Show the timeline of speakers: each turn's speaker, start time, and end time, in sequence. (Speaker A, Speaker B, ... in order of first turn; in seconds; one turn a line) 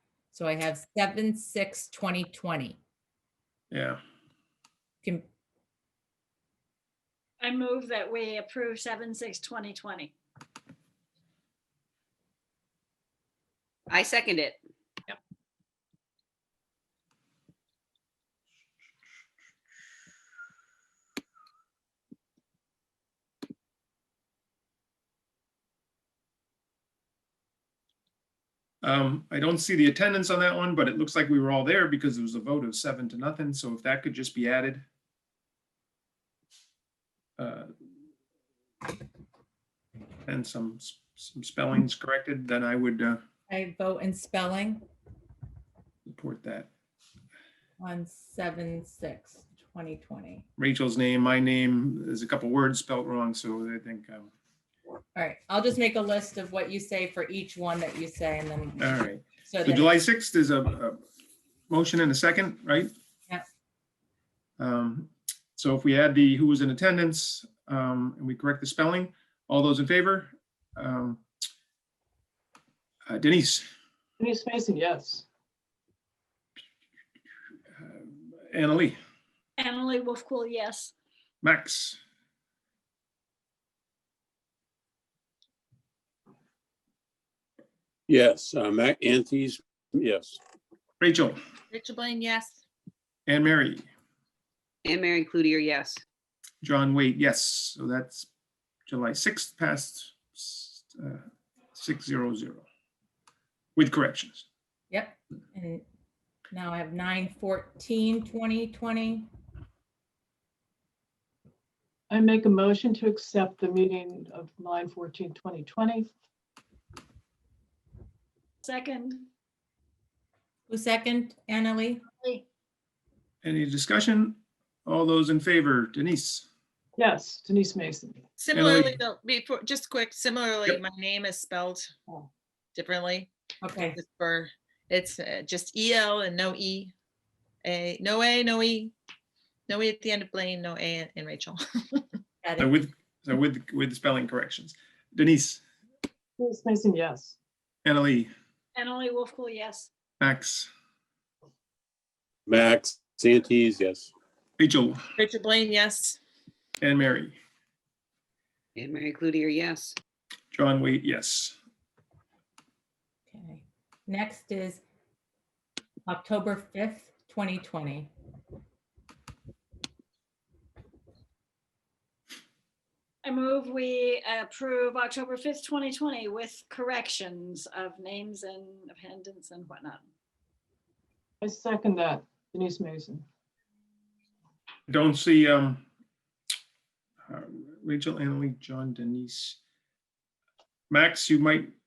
Speaker A: 0.3-2.8
Speaker B: 3.7-4.0
Speaker C: 7.4-10.1
Speaker D: 13.9-14.6
Speaker B: 28.8-34.8
Speaker B: 37.4-37.7
Speaker B: 40.3-43.2
Speaker A: 43.5-44.8
Speaker B: 46.1-46.7
Speaker A: 47.8-50.5
Speaker B: 50.6-54.3
Speaker A: 55.1-59.9
Speaker B: 58.8-61.0
Speaker B: 61.7-62.9
Speaker B: 64.6-71.2
Speaker B: 73.1-73.7
Speaker E: 74.2-75.2
Speaker B: 77.8-79.0
Speaker C: 79.6-80.9
Speaker B: 81.4-82.0
Speaker F: 88.1-90.4
Speaker B: 91.0-91.4
Speaker G: 91.7-92.6
Speaker B: 93.3-93.8
Speaker D: 94.8-96.0
Speaker B: 96.6-98.3
Speaker B: 98.9-101.2
Speaker B: 101.8-102.7
Speaker B: 103.8-104.5
Speaker A: 104.9-105.8
Speaker A: 106.5-109.3
Speaker E: 112.1-116.1
Speaker C: 118.6-119.3
Speaker A: 120.7-122.0
Speaker B: 123.4-126.5
Speaker E: 127.0-128.2
Speaker G: 128.4-131.9
Speaker B: 128.5-129.0
Speaker G: 132.8-133.3
Speaker A: 133.6-134.0
Speaker G: 133.9-136.9
Speaker G: 137.6-138.9
Speaker G: 139.7-142.2
Speaker A: 142.4-142.7
Speaker B: 142.6-145.6
Speaker E: 146.4-147.4
Speaker B: 147.8-148.3
Speaker C: 148.8-149.9
Speaker B: 150.2-150.7
Speaker F: 152.5-154.1
Speaker B: 154.6-155.0
Speaker G: 155.2-156.2
Speaker B: 156.8-157.4
Speaker D: 158.8-159.9
Speaker B: 160.5-161.6
Speaker A: 163.3-164.8
Speaker A: 166.1-168.1
Speaker C: 173.2-180.1
Speaker E: 181.4-183.2
Speaker B: 184.9-185.8
Speaker B: 187.3-189.6
Speaker B: 190.9-191.7